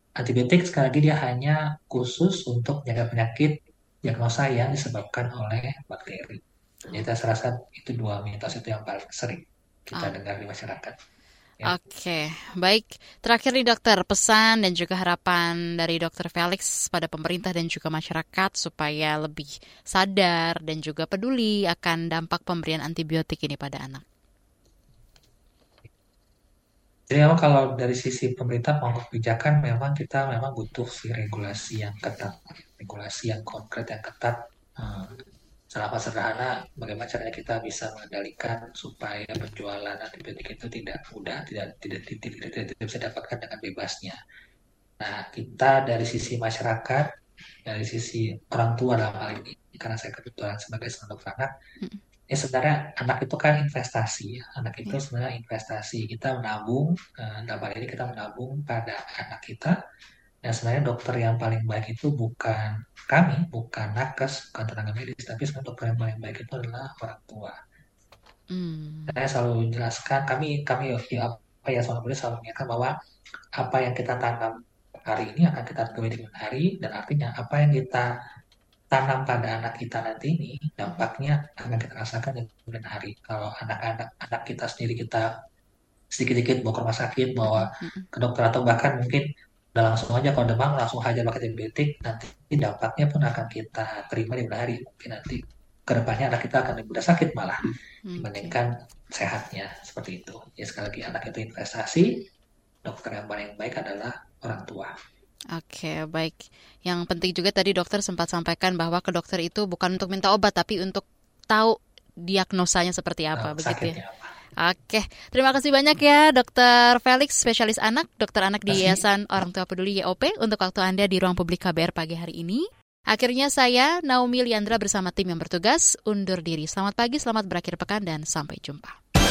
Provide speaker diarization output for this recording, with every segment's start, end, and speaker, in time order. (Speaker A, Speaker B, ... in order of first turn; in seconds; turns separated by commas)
Speaker A: 0.2-10.9, Speaker B: 11.6-24.0, Speaker A: 27.1-44.2, Speaker A: 45.0-47.1, Speaker A: 47.6-51.5, Speaker A: 52.3-59.8, Speaker A: 60.4-67.6, Speaker B: 68.5-69.2, Speaker A: 69.1-73.0, Speaker A: 73.6-78.1, Speaker A: 78.9-85.3, Speaker A: 86.1-102.2, Speaker B: 87.4-88.1, Speaker B: 98.0-98.5, Speaker A: 102.8-104.9, Speaker B: 105.5-114.0, Speaker A: 113.3-114.3, Speaker B: 114.6-129.0, Speaker A: 118.7-119.0